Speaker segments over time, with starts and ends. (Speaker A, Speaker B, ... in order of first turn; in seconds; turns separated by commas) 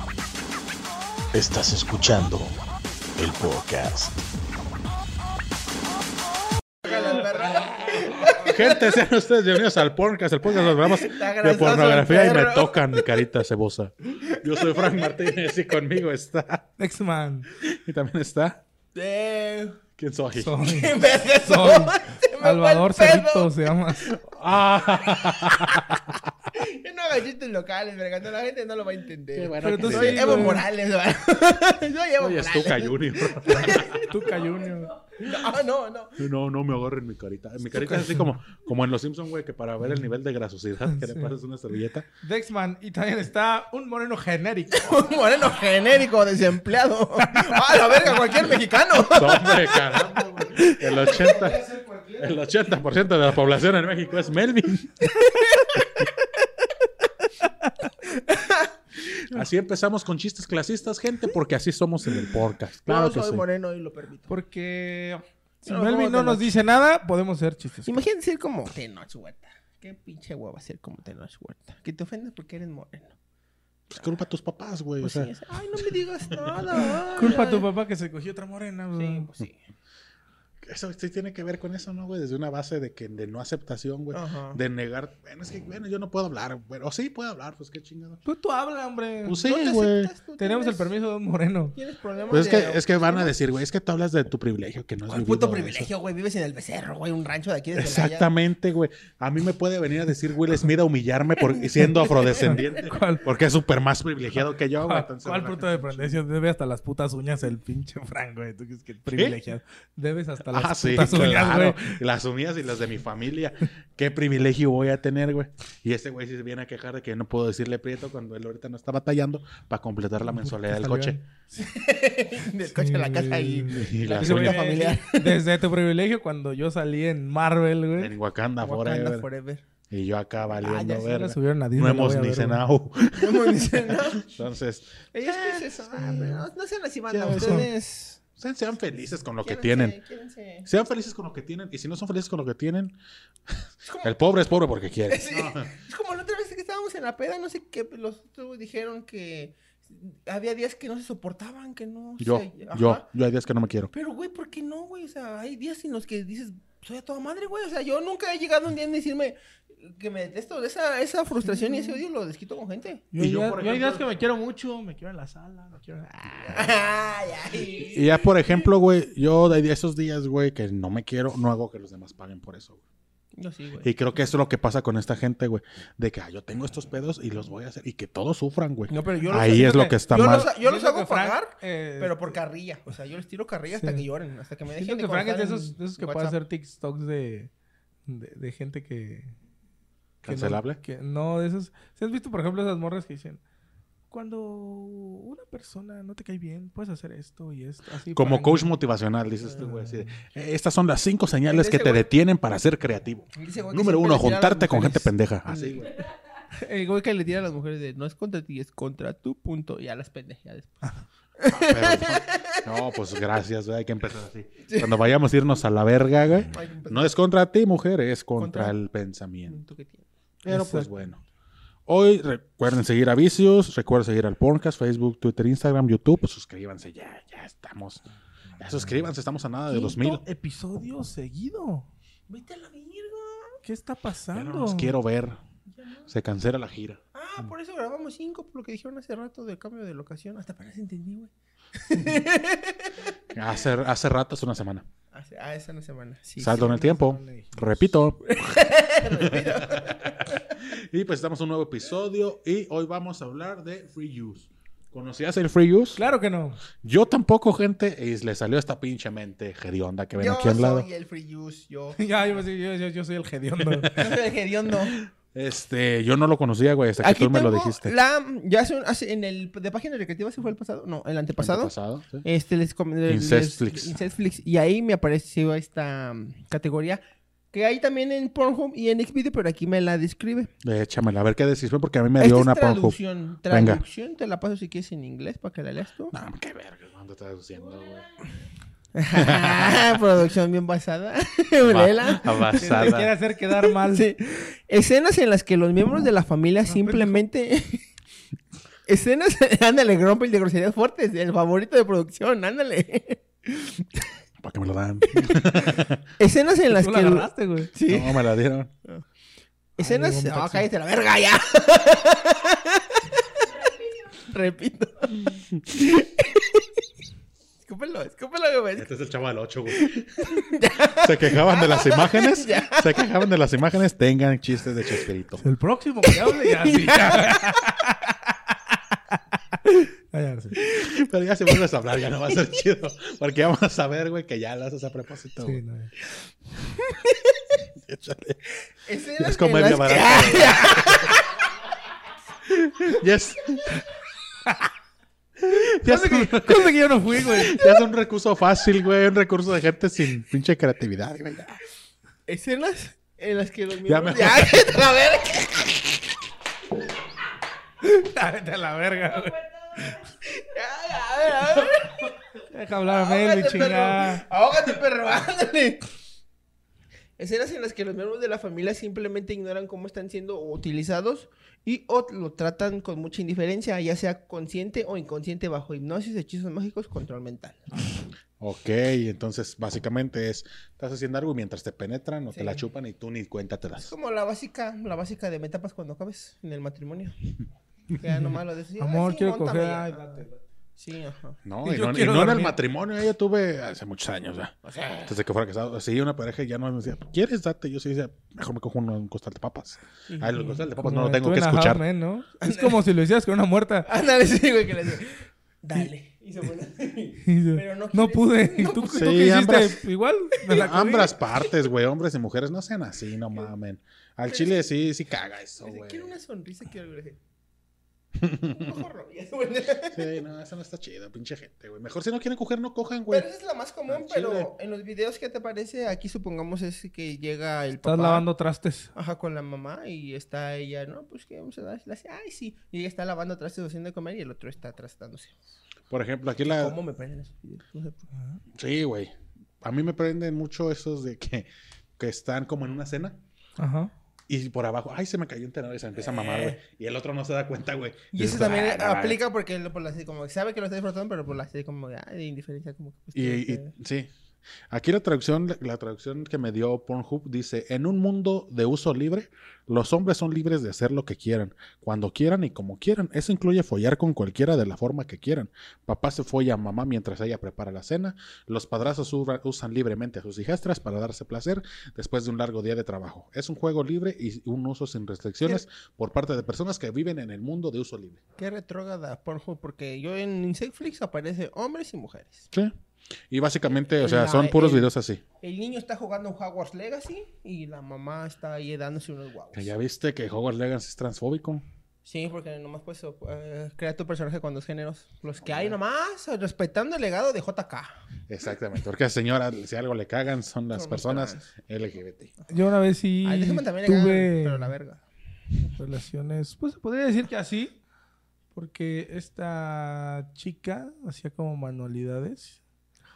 Speaker A: 1.3-2.5, Speaker A: 3.2-4.2, Speaker B: 6.8-9.0, Speaker A: 6.9-16.6, Speaker B: 10.5-13.2, Speaker B: 14.2-15.3, Speaker C: 16.8-17.5, Speaker A: 17.6-18.6, Speaker B: 18.9-19.8, Speaker A: 20.0-20.6, Speaker C: 20.4-24.1, Speaker B: 20.6-23.9, Speaker A: 24.0-26.2, Speaker B: 25.1-25.9, Speaker B: 26.5-36.2, Speaker A: 29.3-30.6, Speaker C: 29.6-30.7, Speaker A: 32.2-34.1, Speaker C: 33.7-34.9, Speaker A: 36.2-42.1, Speaker C: 37.8-38.1, Speaker C: 42.2-44.9, Speaker B: 44.7-50.2, Speaker C: 47.2-47.8, Speaker A: 49.0-55.1, Speaker B: 55.0-56.3, Speaker B: 58.2-58.7, Speaker A: 59.3-63.4, Speaker B: 62.9-64.3, Speaker C: 64.3-68.0, Speaker B: 65.7-66.5, Speaker B: 67.9-73.2, Speaker A: 73.9-76.7, Speaker B: 75.0-77.7, Speaker C: 77.2-79.3, Speaker B: 79.0-79.6, Speaker A: 80.6-88.2, Speaker B: 84.1-84.6, Speaker C: 88.3-89.4, Speaker A: 89.2-90.1, Speaker B: 89.4-90.9, Speaker C: 90.4-91.7, Speaker B: 91.7-93.3, Speaker A: 92.3-95.9, Speaker B: 95.1-98.3, Speaker A: 97.8-106.2, Speaker C: 101.7-103.2, Speaker C: 104.8-112.0, Speaker A: 109.1-109.4, Speaker A: 110.5-121.2, Speaker C: 120.2-121.6, Speaker B: 121.6-125.4, Speaker C: 122.7-128.1, Speaker A: 123.7-124.8, Speaker A: 128.0-129.3, Speaker B: 128.6-129.6, Speaker A: 129.9-135.8, Speaker B: 130.6-131.1, Speaker C: 131.0-132.6, Speaker B: 133.2-134.3, Speaker B: 135.1-138.2, Speaker C: 136.0-136.4, Speaker A: 137.1-137.7, Speaker C: 137.3-137.7, Speaker A: 138.4-140.0, Speaker B: 139.4-140.7, Speaker A: 140.7-143.0, Speaker A: 143.5-145.7, Speaker B: 143.9-144.1, Speaker B: 145.1-153.1, Speaker A: 152.2-153.9, Speaker B: 153.9-163.1, Speaker C: 161.5-162.0, Speaker C: 163.1-166.6, Speaker A: 163.2-164.1, Speaker B: 166.3-168.1, Speaker A: 167.7-172.8, Speaker B: 173.4-173.9, Speaker A: 173.8-180.5, Speaker B: 178.9-186.4, Speaker C: 180.1-182.4, Speaker C: 183.7-184.1, Speaker C: 184.7-187.5, Speaker C: 188.1-189.3, Speaker A: 190.2-190.8, Speaker C: 190.3-193.4, Speaker C: 194.1-198.7, Speaker A: 198.1-205.9, Speaker B: 201.5-202.1, Speaker B: 203.3-205.9, Speaker B: 206.5-212.7, Speaker A: 211.5-219.6, Speaker B: 214.7-215.0, Speaker B: 216.5-217.2, Speaker B: 218.4-218.8, Speaker B: 219.5-220.1, Speaker A: 220.4-221.2, Speaker C: 220.5-220.9, Speaker A: 221.9-228.0, Speaker A: 228.6-230.2, Speaker C: 229.7-231.9, Speaker B: 232.3-233.6, Speaker C: 233.6-234.9, Speaker A: 234.3-235.4, Speaker B: 235.7-236.1, Speaker A: 236.1-237.0, Speaker B: 237.1-243.1, Speaker A: 243.3-244.9, Speaker B: 245.1-246.9, Speaker A: 246.4-248.4, Speaker C: 246.6-247.9, Speaker B: 248.3-250.6, Speaker A: 249.1-256.0, Speaker C: 256.0-256.6, Speaker A: 256.8-260.9, Speaker B: 260.1-262.0, Speaker C: 262.0-264.1, Speaker B: 263.9-265.0, Speaker A: 264.9-267.9, Speaker B: 267.0-277.0, Speaker A: 271.4-272.2, Speaker A: 273.1-274.0, Speaker B: 277.5-280.5, Speaker A: 280.6-283.0, Speaker B: 282.2-286.1, Speaker A: 283.5-283.8, Speaker A: 286.1-288.1, Speaker B: 288.9-293.0, Speaker A: 289.2-290.0, Speaker A: 291.6-293.1, Speaker C: 292.6-294.1, Speaker B: 293.6-297.9, Speaker C: 296.7-297.2, Speaker B: 298.9-303.8, Speaker A: 304.4-306.0, Speaker B: 305.1-305.4, Speaker B: 306.2-308.2, Speaker C: 306.7-307.7, Speaker A: 307.9-308.7, Speaker C: 309.8-310.7, Speaker B: 309.8-316.7, Speaker B: 317.6-318.9, Speaker A: 318.8-320.4, Speaker B: 319.7-323.1, Speaker A: 321.0-325.4, Speaker C: 325.4-330.6, Speaker B: 326.1-327.7, Speaker A: 330.6-335.6, Speaker C: 335.4-335.9, Speaker B: 336.8-337.6, Speaker A: 337.8-338.6, Speaker B: 338.9-341.4, Speaker A: 339.2-341.2, Speaker A: 342.5-343.8, Speaker A: 345.4-351.6, Speaker C: 345.5-347.6, Speaker B: 352.3-355.9, Speaker A: 353.9-354.7, Speaker C: 357.8-360.0, Speaker B: 360.2-362.1, Speaker C: 362.5-364.2, Speaker B: 362.9-365.9, Speaker B: 367.2-377.7, Speaker A: 378.4-383.9, Speaker B: 382.3-382.6, Speaker B: 383.8-387.1, Speaker B: 388.0-390.2, Speaker C: 388.1-390.4, Speaker B: 390.8-391.4, Speaker A: 391.4-401.8, Speaker C: 391.6-392.6, Speaker B: 394.6-395.2, Speaker B: 400.1-400.6, Speaker C: 400.7-403.9, Speaker B: 402.4-402.8, Speaker B: 403.9-409.3, Speaker C: 407.2-411.1, Speaker A: 408.9-409.8, Speaker B: 410.4-410.7, Speaker A: 410.5-416.1, Speaker B: 414.3-414.6, Speaker B: 415.6-417.2, Speaker A: 418.2-418.7, Speaker B: 418.4-420.2, Speaker A: 419.9-423.3, Speaker B: 423.1-428.3, Speaker A: 423.9-424.5, Speaker C: 427.8-428.9, Speaker B: 428.9-435.3, Speaker A: 435.9-436.8, Speaker B: 436.4-438.1, Speaker A: 438.6-443.2, Speaker C: 443.6-443.9, Speaker A: 444.3-449.2, Speaker B: 446.0-446.6, Speaker B: 448.1-453.7, Speaker A: 453.1-454.1, Speaker A: 454.7-478.2, Speaker B: 478.4-482.5, Speaker A: 483.3-485.2, Speaker B: 484.0-489.7, Speaker A: 489.5-491.6, Speaker B: 492.1-498.0, Speaker A: 495.4-495.8, Speaker A: 498.3-502.3, Speaker B: 500.7-501.5, Speaker C: 502.5-504.7, Speaker B: 503.2-505.0, Speaker C: 505.7-507.8, Speaker C: 508.6-512.6